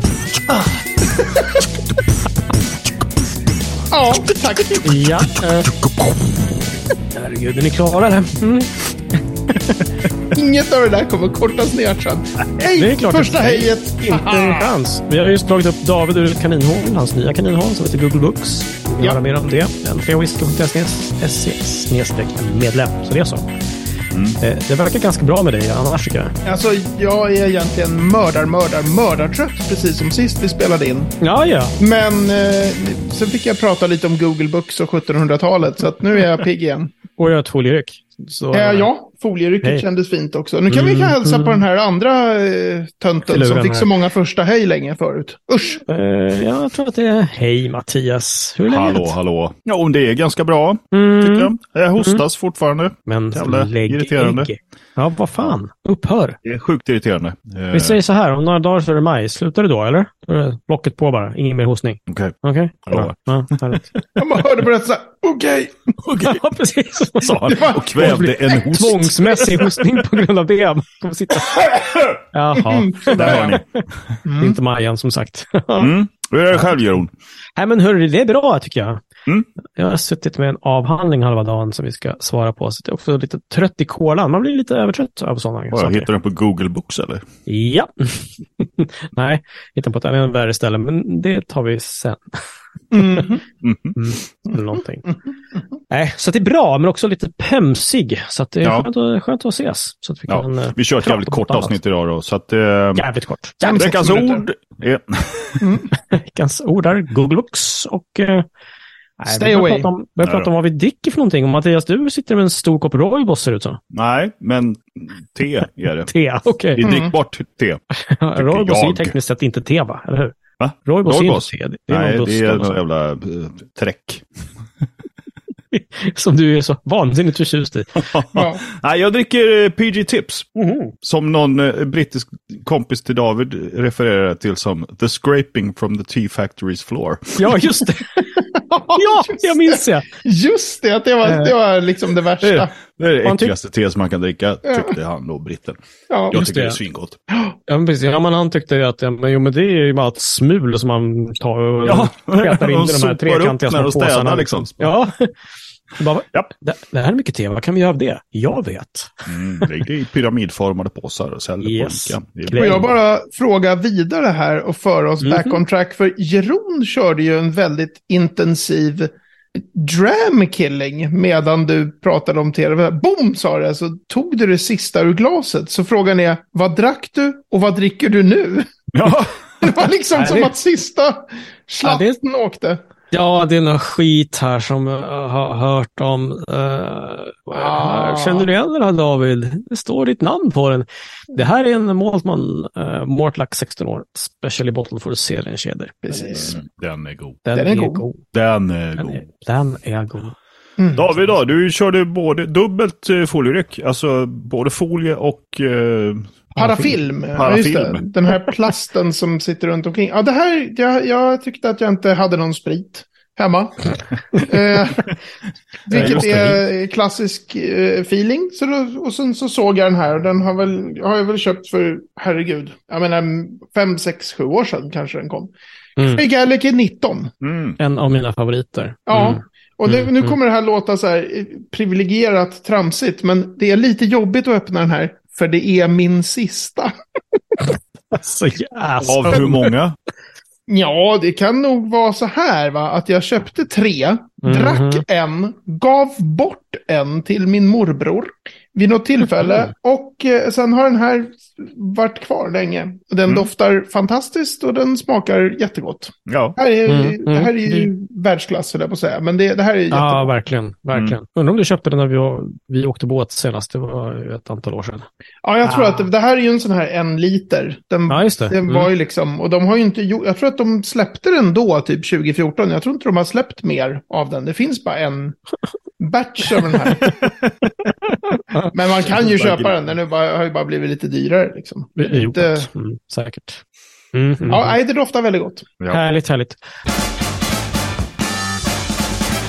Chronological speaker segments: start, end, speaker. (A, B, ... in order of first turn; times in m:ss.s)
0:00.5-0:01.7 A
0:03.9-0:05.2 A
0:04.8-0:05.8 B
0:07.1-0:08.7 B
0:09.5-0:09.8 B
0:10.3-0:14.7 A
0:12.7-0:23.5 B
0:24.1-0:24.4 C
0:24.4-0:26.3 B
0:26.4-0:31.1 A
0:31.2-0:31.7 B
0:31.8-0:36.9 A
0:37.2-0:38.9 B
0:38.5-0:45.8 A
0:40.7-0:41.6 B
0:43.3-0:43.9 B
0:45.8-0:49.1 B
0:48.7-0:54.5 C
0:50.9-0:52.2 B
0:53.1-0:56.4 B
0:56.4-0:58.0 C
0:57.7-1:03.9 B
1:02.1-1:02.4 C
1:02.9-1:03.2 C
1:04.2-1:05.9 A
1:06.0-1:06.4 C
1:06.2-1:11.8 B
1:07.2-1:09.8 C
1:07.5-1:08.2 A
1:12.3-1:13.8 B
1:12.6-1:13.6 A
1:13.1-1:13.6 C
1:14.2-1:14.6 A
1:14.4-1:15.9 B
1:15.8-1:17.1 C
1:16.5-1:16.8 B
1:17.6-1:19.0 B
1:19.8-1:26.1 B
1:25.7-1:27.2 C
1:27.5-1:32.4 B
1:32.9-1:33.4 A
1:33.6-1:34.0 C
1:34.0-1:35.1 B
1:35.9-1:41.8 B
1:40.3-1:43.0 C
1:43.0-1:43.9 B
1:43.6-1:44.4 A
1:43.8-1:45.7 C
1:45.6-1:45.9 A
1:46.1-1:48.5 B
1:49.2-1:53.8 B
1:49.3-1:49.9 A
1:50.2-1:50.5 C
1:53.9-1:56.1 C
1:56.1-1:56.9 B
1:56.7-1:57.8 C
1:56.8-1:57.1 A
1:58.0-2:02.8 B
1:58.4-1:59.2 C
2:00.6-2:04.2 C
2:05.7-2:08.0 B
2:08.0-2:10.5 C
2:08.3-2:08.6 A
2:10.6-2:10.9 B
2:11.0-2:17.6 C
2:17.4-2:20.1 B
2:18.5-2:22.7 A
2:21.2-2:21.5 B
2:22.9-2:25.8 C
2:23.2-2:23.5 B
2:24.6-2:25.0 A
2:26.1-2:26.4 A
2:26.3-2:27.2 C
2:26.3-2:26.8 B
2:27.7-2:35.3 B
2:31.9-2:34.9 C
2:36.0-2:39.7 B
2:39.3-2:42.9 C
2:41.6-2:42.9 B
2:42.6-2:58.8 A
2:45.2-2:45.6 B
2:58.9-2:59.3 C
2:59.6-3:02.8 A
3:00.1-3:00.5 B
3:01.8-3:02.2 B
3:03.1-3:16.5 B
3:07.5-3:08.5 A
3:16.0-3:16.6 A
3:16.5-3:17.4 C
3:17.4-3:18.2 B
3:17.6-3:18.1 A
3:18.3-3:19.2 C
3:19.0-3:20.4 B
3:20.8-3:21.1 A
3:21.0-3:26.8 C
3:26.6-3:26.9 B
3:26.6-3:35.1 A
3:27.3-3:28.0 C
3:35.9-3:47.3 A
3:35.9-3:36.6 B
3:46.0-3:46.2 B
3:47.4-3:47.8 C
3:47.8-3:50.4 B
3:49.1-3:56.9 A
3:58.1-3:59.7 B
3:59.0-4:00.0 C
4:00.7-4:20.3 A
4:04.4-4:05.0 B
4:16.3-4:16.6 C
4:16.9-4:17.9 B
4:19.9-4:25.1 B
4:25.4-4:35.4 A
4:25.6-4:26.1 B
4:28.1-4:28.9 B
4:36.0-4:37.3 A
4:36.6-4:37.2 B
4:37.9-4:38.7 B
4:38.7-4:42.7 A
4:39.1-4:39.7 C
4:42.0-4:43.6 B
4:44.1-4:44.8 B
4:44.5-4:45.7 A
4:45.9-4:46.6 B